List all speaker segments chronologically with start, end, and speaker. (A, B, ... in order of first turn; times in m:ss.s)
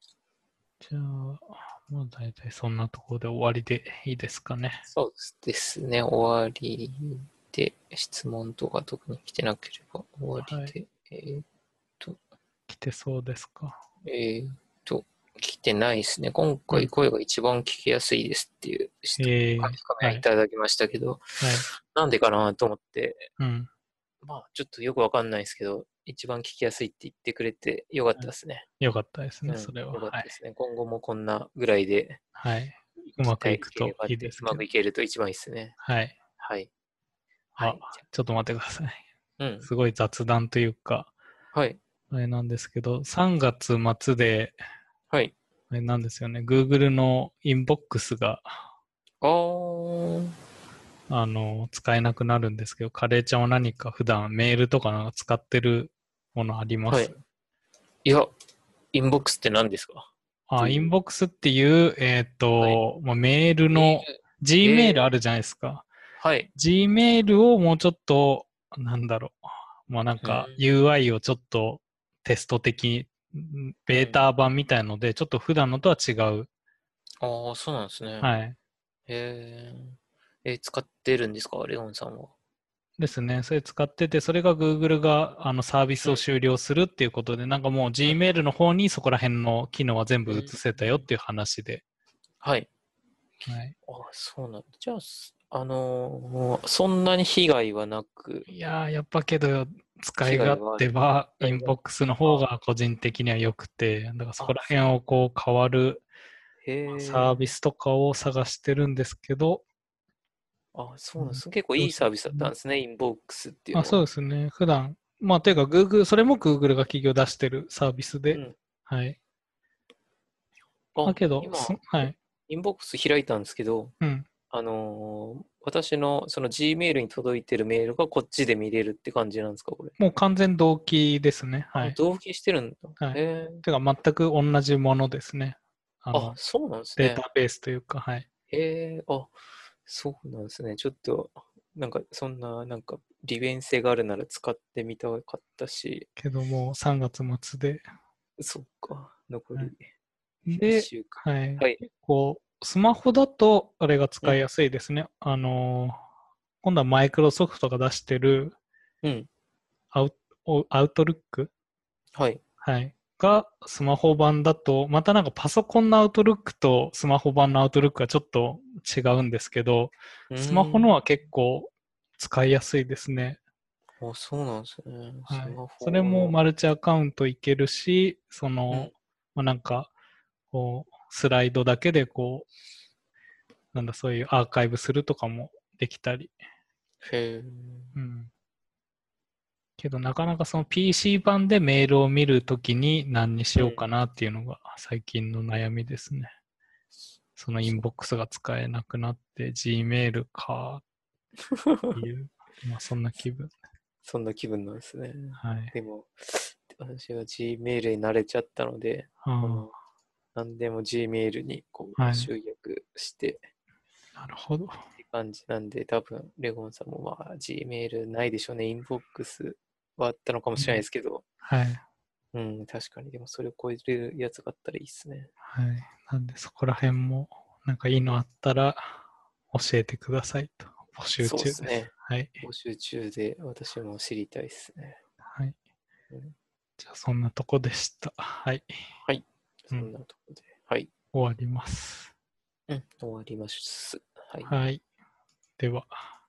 0:00.8-0:04.8 A
0:04.9-0:11.4 B
0:10.4-0:10.7 A
0:12.7-0:13.8 A
0:14.0-0:23.3 B
0:19.2-0:20.2 A
0:21.4-0:21.7 A
0:23.4-0:23.7 A
0:24.2-0:28.6 B
0:28.8-0:30.3 A
0:29.4-0:32.2 B
0:32.4-0:34.6 A
0:33.1-0:35.8 B
0:35.8-0:36.2 A
0:36.4-0:36.7 B
0:37.6-0:39.0 A
0:37.6-0:37.9 B
0:39.4-0:39.7 B
0:39.6-0:41.1 A
0:41.5-0:41.8 B
0:42.1-0:44.6 A
0:45.7-0:48.6 A
0:49.2-0:50.3 B
0:51.1-0:57.1 A
0:56.9-0:57.2 B
0:58.0-0:58.3 B
0:58.9-1:00.9 B
1:00.5-1:05.9 A
1:03.7-1:05.1 B
1:06.2-1:06.5 B
1:06.5-1:16.5 A
1:10.2-1:10.6 B
1:13.9-1:14.2 B
1:17.2-1:18.3 B
1:18.2-1:18.6 A
1:19.1-1:22.3 B
1:23.0-1:31.8 A
1:30.3-1:31.0 B
1:32.4-1:32.7 B
1:33.5-1:33.7 A
1:33.8-1:38.5 B
1:38.5-1:46.0 A
1:40.2-1:40.9 B
1:41.4-1:42.4 B
1:46.6-1:47.4 B
1:46.9-1:49.6 A
1:50.7-1:54.0 B
1:51.2-1:52.5 A
1:53.7-1:59.2 A
1:58.3-1:58.5 B
2:00.9-2:03.9 B
2:01.0-2:02.1 A
2:04.0-2:04.3 A
2:04.5-2:10.0 B
2:10.0-2:12.0 A
2:11.8-2:13.6 B
2:13.0-2:16.4 A
2:16.1-2:17.2 B
2:17.0-2:18.2 A
2:18.5-2:26.1 B
2:26.2-2:27.8 A
2:28.4-2:29.8 B
2:30.4-2:36.0 A
2:30.6-2:31.8 B
2:36.6-2:38.6 A
2:39.0-2:39.3 B
2:39.9-2:41.5 A
2:42.1-2:42.4 B
2:42.6-2:53.4 A
2:50.3-2:50.9 B
2:54.0-2:56.4 B
2:55.3-2:59.9 A
3:00.5-3:02.5 A
3:03.7-3:06.3 A
3:07.0-3:07.9 B
3:07.9-3:08.3 A
3:09.8-3:16.3 A
3:17.4-3:20.8 A
3:21.5-3:22.0 B
3:21.9-3:23.5 A
3:24.0-3:29.7 B
3:25.4-3:25.7 A
3:29.2-3:29.7 A
3:30.3-3:33.4 B
3:32.0-3:32.3 A
3:34.2-3:34.8 A
3:35.0-3:41.2 B
3:41.4-3:41.8 A
3:42.3-3:45.3 B
3:45.4-3:49.0 A
3:49.5-3:52.4 A
3:51.2-3:55.0 B
3:55.2-3:55.6 A
3:56.8-3:58.7 A
3:59.0-4:00.9 B
4:01.1-4:02.1 A
4:02.7-4:04.5 B
4:04.4-4:04.8 A
4:05.6-4:06.0 A